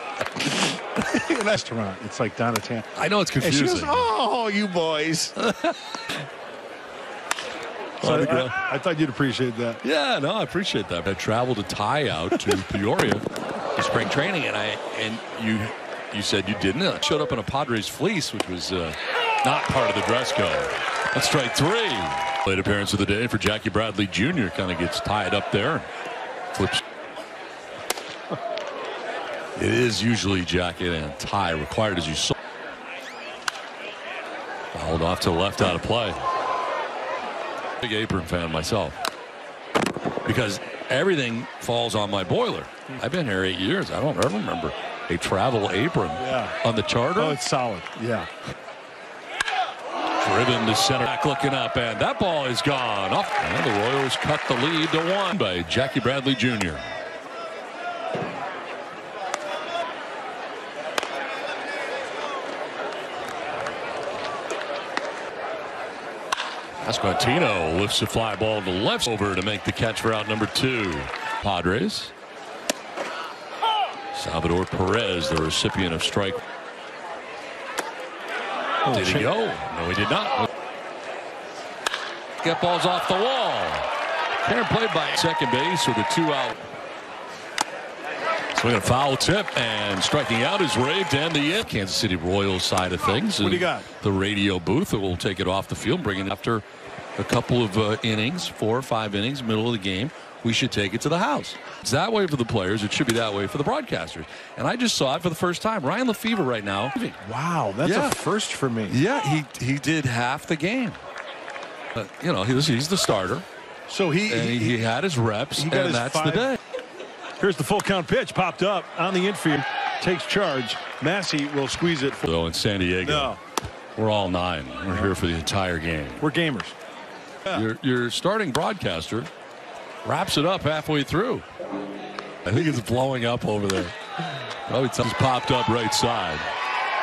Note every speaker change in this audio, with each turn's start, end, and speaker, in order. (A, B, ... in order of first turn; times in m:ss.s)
0:00.5-0:02.9 A
0:03.0-0:04.1 B
0:03.4-0:05.3 A
0:05.4-0:05.8 B
0:08.0-0:08.6 B
0:08.0-0:09.8 A
0:09.8-0:25.9 B
0:26.5-0:26.8 B
0:29.6-0:32.4 B
0:34.7-0:36.2 B
0:37.8-0:39.0 B
0:40.2-0:47.4 B
0:46.2-0:46.6 A
0:47.2-0:48.3 A
0:50.2-0:56.8 B
1:06.8-1:12.1 B
1:14.1-1:16.4 B
1:18.8-1:19.3 A
1:18.9-1:20.5 B
1:22.4-1:23.9 B
1:24.4-1:26.6 B
1:28.6-1:36.6 B
1:33.4-1:33.9 A
1:37.2-1:47.2 B
1:47.2-1:49.0 A
1:47.8-1:48.2 B
1:48.9-1:51.0 B
1:52.0-1:53.5 B
1:53.9-1:54.8 A
1:54.3-1:56.6 B
1:55.6-1:56.5 A
1:57.4-2:02.3 A
2:02.2-2:03.4 B
2:03.0-2:03.4 A
2:04.0-2:06.3 B
2:06.2-2:06.8 A
2:07.5-2:09.3 B
2:10.0-2:11.4 B
2:12.4-2:14.0 B
2:14.7-2:16.5 B